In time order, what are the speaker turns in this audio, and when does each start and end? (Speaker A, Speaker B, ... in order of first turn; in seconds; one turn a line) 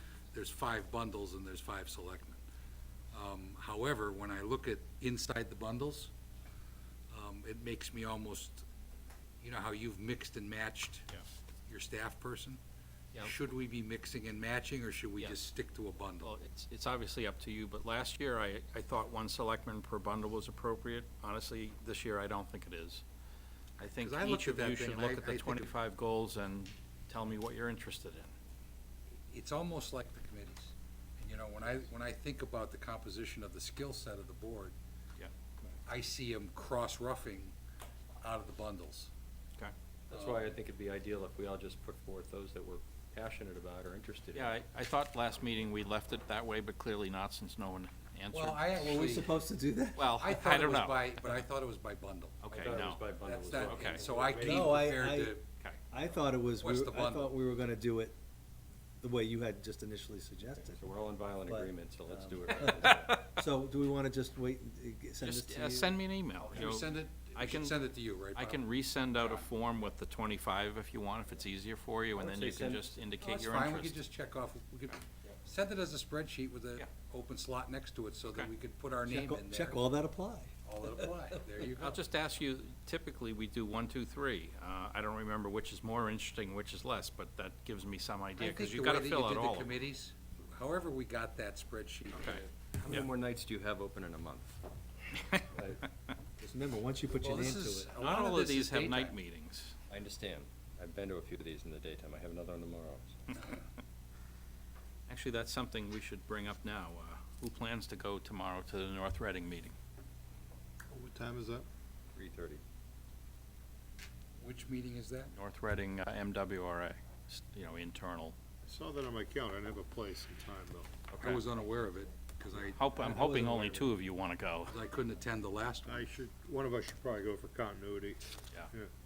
Speaker A: 0.3-2.4
Speaker A: 3.1-6.1
Speaker A: 7.1-8.7
Speaker A: 9.4-11.1
Speaker A: 11.7-12.6
Speaker A: 13.2-16.3
Speaker B: 16.2-23.0
Speaker B: 23.8-28.3
Speaker A: 24.0-25.7
Speaker A: 29.3-34.8
Speaker A: 35.9-37.5
Speaker A: 38.2-39.1
Speaker C: 40.1-44.5
Speaker A: 40.1-40.5
Speaker B: 44.3-49.0
Speaker A: 48.3-49.3
Speaker D: 48.8-50.1
Speaker B: 50.0-51.1
Speaker A: 50.1-52.4
Speaker B: 52.4-53.0
Speaker C: 52.5-54.5
Speaker A: 53.2-55.5
Speaker B: 53.6-54.0
Speaker D: 54.3-55.4
Speaker D: 55.9-58.1
Speaker A: 56.6-57.3
Speaker D: 59.0-60.9
Speaker C: 60.7-63.3
Speaker D: 61.5-66.0
Speaker B: 62.7-63.2
Speaker B: 65.2-67.8
Speaker A: 66.4-69.4
Speaker B: 68.3-74.0
Speaker C: 72.2-72.9
Speaker A: 73.2-79.8
Speaker D: 79.0-80.9
Speaker A: 80.6-82.0
Speaker B: 81.8-89.7
Speaker A: 88.4-92.8
Speaker B: 92.1-93.1
Speaker C: 92.8-94.6
Speaker D: 96.4-97.9
Speaker A: 97.1-99.2
Speaker B: 98.0-99.8
Speaker C: 99.9-103.5
Speaker B: 105.1-109.7
Speaker E: 110.9-111.7
Speaker C: 112.1-112.6
Speaker A: 114.4-115.3
Speaker B: 115.3-118.3
Speaker E: 118.7-121.1
Speaker B: 121.1-121.4
Speaker A: 121.2-123.4
Speaker B: 122.7-124.8
Speaker D: 123.0-123.9
Speaker A: 124.7-126.1
Speaker E: 125.8-128.9